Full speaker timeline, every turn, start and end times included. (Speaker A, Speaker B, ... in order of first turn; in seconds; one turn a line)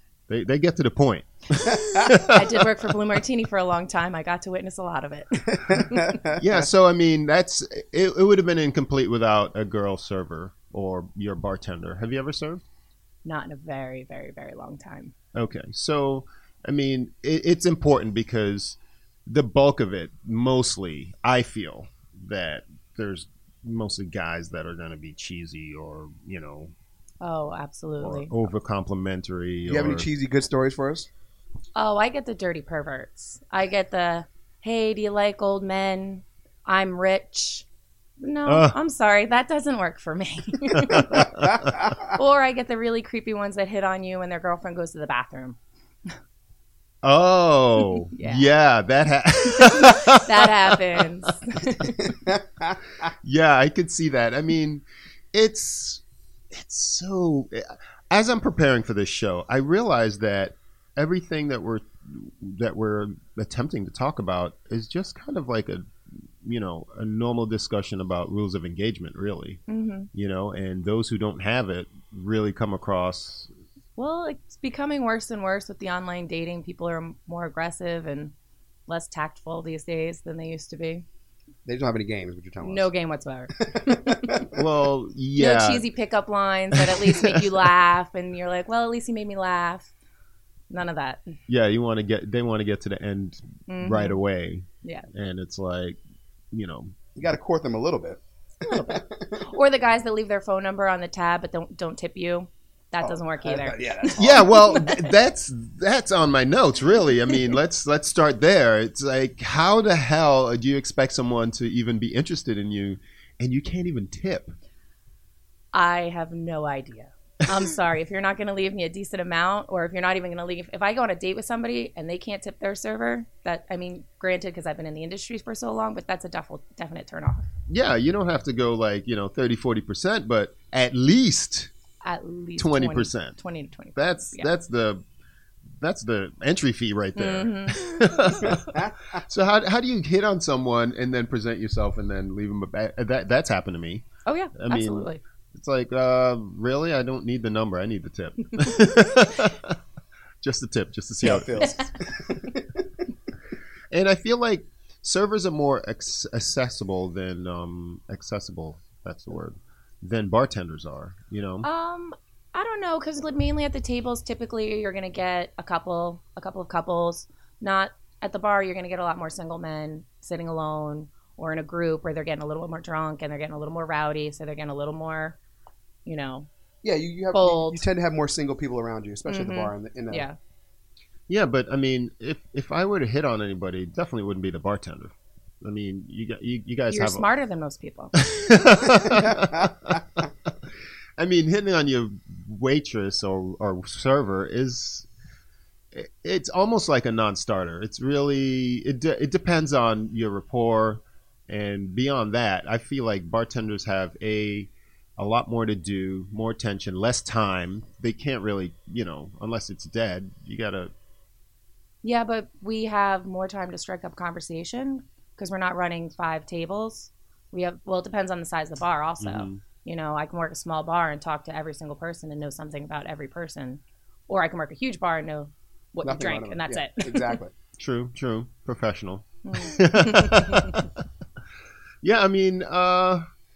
Speaker A: 0.3-2.4
Speaker B: 1.8-2.1
Speaker C: 2.3-6.1
Speaker B: 5.7-6.6
Speaker A: 6.4-12.6
Speaker C: 13.2-15.1
Speaker A: 15.3-26.7
Speaker C: 27.2-28.4
Speaker A: 28.0-30.1
Speaker B: 29.7-31.1
Speaker C: 31.7-37.6
Speaker C: 38.2-41.3
Speaker A: 38.5-38.7
Speaker A: 40.9-41.6
Speaker B: 41.5-42.1
Speaker C: 42.1-46.1
Speaker A: 47.0-50.8
Speaker C: 48.1-48.5
Speaker C: 50.1-52.1
Speaker B: 52.1-53.1
Speaker A: 53.2-69.6
Speaker C: 69.7-70.1
Speaker A: 70.1-73.5
Speaker C: 74.0-78.3
Speaker C: 78.9-81.0
Speaker B: 81.7-82.9
Speaker C: 82.6-84.1
Speaker B: 83.5-84.6
Speaker A: 84.5-85.9
Speaker C: 85.4-89.9
Speaker A: 86.7-87.6
Speaker C: 90.7-91.2
Speaker A: 91.5-96.0
Speaker C: 93.7-94.2
Speaker C: 94.8-95.1
Speaker A: 96.5-96.9
Speaker B: 97.2-99.4
Speaker C: 98.6-103.8
Speaker B: 103.0-104.5
Speaker A: 104.2-114.5
Speaker C: 104.3-105.0
Speaker C: 115.7-127.5
Speaker A: 127.7-131.7
Speaker C: 132.0-134.5
Speaker A: 132.6-133.4
Speaker A: 133.9-135.0
Speaker A: 135.8-138.6
Speaker C: 137.1-137.8
Speaker B: 138.5-139.2
Speaker A: 139.2-149.8
Speaker C: 144.2-145.2
Speaker A: 150.4-151.7
Speaker B: 151.2-152.6
Speaker A: 153.9-161.7
Speaker C: 161.6-175.4
Speaker C: 176.1-176.5
Speaker B: 176.8-180.2
Speaker C: 177.3-177.8
Speaker C: 179.3-180.4
Speaker A: 181.3-187.2
Speaker C: 186.9-188.2
Speaker A: 188.2-190.0
Speaker B: 189.1-189.7
Speaker A: 191.2-195.1
Speaker A: 195.9-210.9
Speaker C: 212.0-227.4
Speaker A: 219.2-219.6
Speaker B: 226.0-227.5
Speaker A: 227.8-230.9
Speaker C: 229.4-230.8
Speaker A: 232.0-233.2